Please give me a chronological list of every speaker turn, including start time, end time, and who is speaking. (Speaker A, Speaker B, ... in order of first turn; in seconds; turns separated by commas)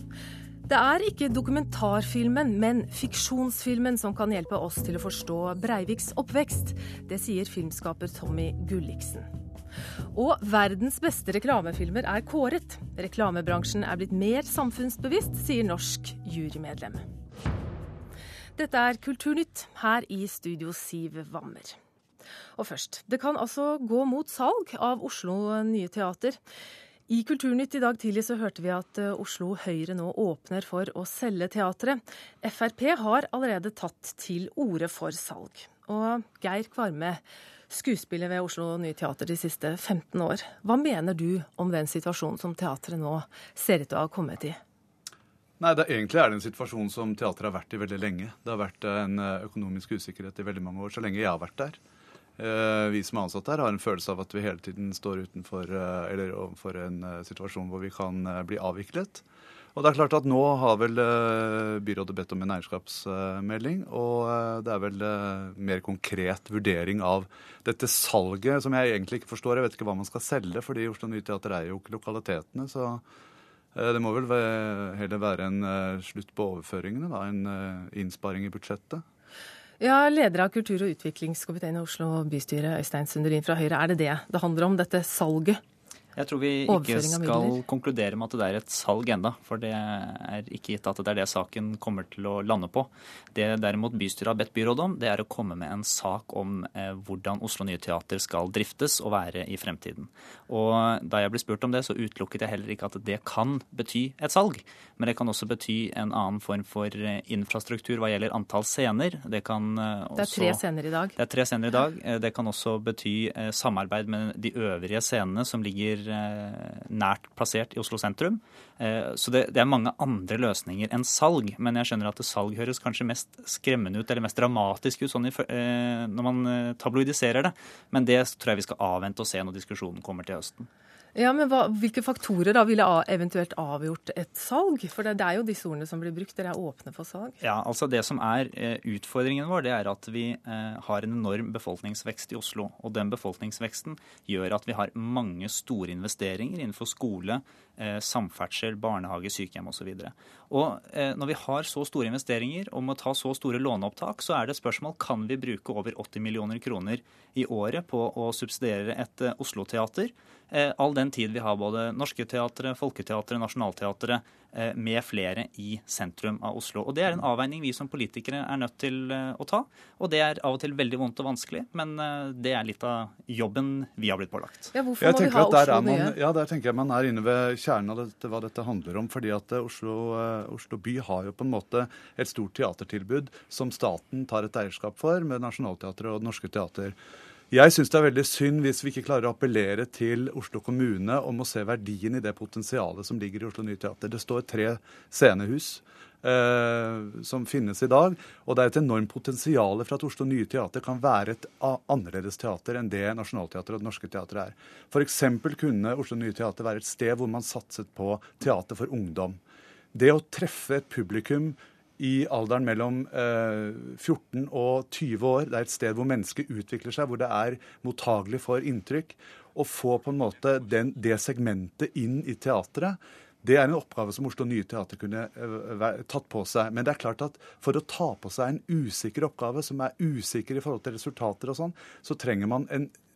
Speaker A: 0.7-9.3, Speaker A: 10.1-17.0, Speaker A: 18.6-21.8, Speaker A: 22.6-26.4, Speaker A: 27.1-44.6, Speaker B: 45.6-51.8, Speaker B: 52.4-59.2, Speaker B: 59.7-73.0, Speaker B: 73.7-79.0, Speaker A: 79.8-85.6, Speaker C: 86.2-110.6, Speaker A: 86.7-87.6, Speaker A: 110.2-111.2, Speaker C: 111.2-130.7, Speaker A: 131.1-137.3, Speaker C: 137.4-174.7, Speaker A: 174.7-176.2, Speaker B: 175.0-186.9, Speaker B: 187.5-209.4, Speaker B: 209.9-232.9